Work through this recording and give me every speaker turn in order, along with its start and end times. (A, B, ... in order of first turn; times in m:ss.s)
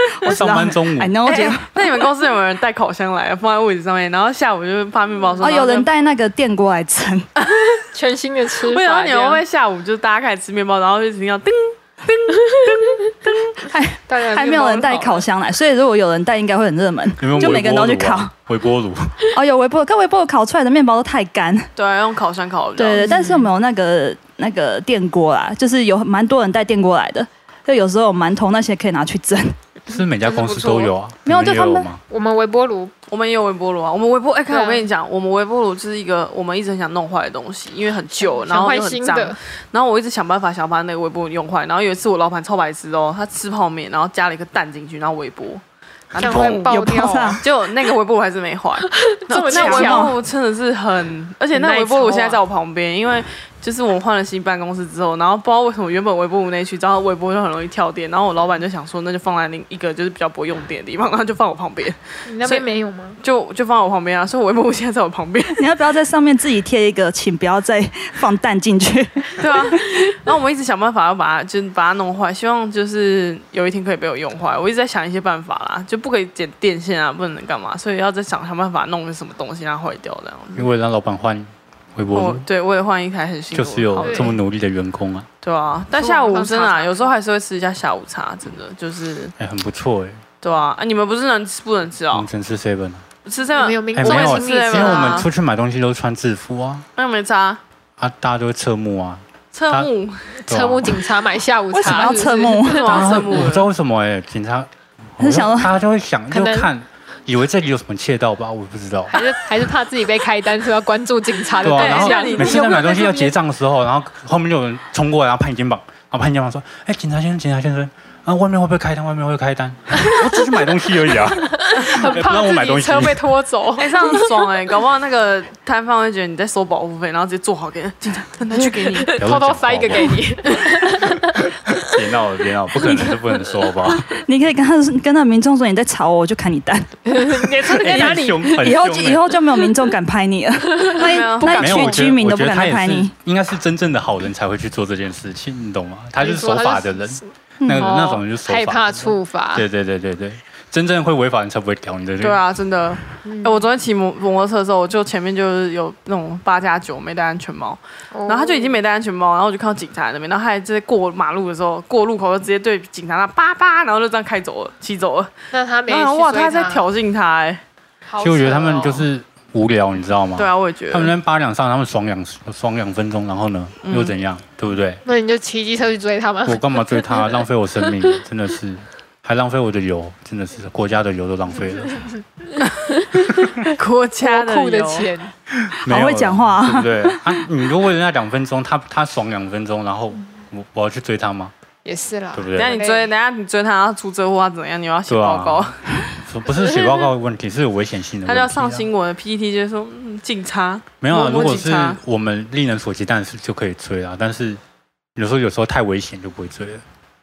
0:00.2-0:01.7 A
0:00.2-0:01.2 B
0:01.2-0:05.9 C
0:05.4-0:07.3 A
0:07.4-0:07.8 C
0:07.9-0:09.4 D
0:08.6-0:13.5 C
0:13.6-0:18.3 A
0:14.1-0:15.2 D
0:17.2-0:19.2 B
0:19.3-0:21.7 A
0:21.8-0:23.1 C
0:22.8-0:29.6 A
0:23.0-0:23.5 D
0:29.9-0:32.0 B
0:30.2-0:30.9 D
0:31.2-0:31.9 A
0:32.1-0:32.9 D
0:33.1-0:46.7 C
0:34.5-0:34.8 D
0:38.2-0:39.4 D
0:46.2-0:47.4 D
0:46.3-0:47.4 A
0:47.4-1:02.6 C
0:48.9-0:50.1 D
0:49.4-0:50.2 A
0:51.5-0:52.4 D
1:02.3-1:03.2 D
1:03.2-1:05.6 C
1:05.6-1:09.8 A
1:09.4-1:20.7 C
1:20.5-1:22.4 B
1:22.1-1:24.4 C
1:23.5-1:25.3 B
1:24.0-1:24.3 D
1:25.4-1:29.3 C
1:25.9-1:27.1 D
1:29.4-1:30.2 B
1:30.4-1:32.3 C
1:32.1-1:33.0 B
1:33.2-1:35.3 C
1:33.6-1:35.2 D
1:34.0-1:36.8 B
1:37.0-1:37.6 C
1:38.0-1:39.9 B
1:39.5-1:40.4 C
1:40.4-1:43.4 D
1:40.5-1:41.1 B
1:41.7-1:42.8 A
1:42.5-1:43.7 C
1:42.9-1:49.2 B
1:45.2-1:45.7 A
1:46.3-1:46.7 D
1:49.1-1:53.2 D
1:51.6-2:03.2 B
1:51.6-1:53.3 C
2:01.2-2:04.4 D
2:03.8-2:09.2 C
2:08.5-2:11.7 D
2:09.2-2:10.2 B
2:11.7-2:14.1 B
2:12.8-2:13.1 D
2:14.1-2:17.0 A
2:17.1-2:18.6 D
2:17.6-2:19.3 B
2:17.8-2:23.1 A
2:20.8-2:21.6 D
2:21.0-2:22.1 C
2:21.5-2:32.4 B
2:26.2-2:27.2 D
2:27.6-2:27.9 A
2:27.8-2:29.6 D
2:32.2-2:45.3 C
2:33.2-2:33.6 D
2:38.1-2:38.8 D
2:45.5-2:46.8 D
2:45.9-2:47.6 C
2:48.0-2:49.1 D
2:48.2-2:55.0 B
2:50.4-2:51.1 C
2:53.8-2:54.1 C
2:55.0-2:57.3 D
2:56.4-3:02.0 B
3:02.8-3:05.3 D
3:03.7-3:05.1 C
3:05.6-3:11.5 B
3:05.8-3:07.2 A
3:11.8-3:13.1 D
3:12.3-3:12.7 B
3:12.5-3:15.8 C
3:15.1-3:15.7 B
3:16.2-3:18.9 B
3:18.2-3:22.0 C
3:21.0-3:24.6 B
3:25.2-3:26.8 B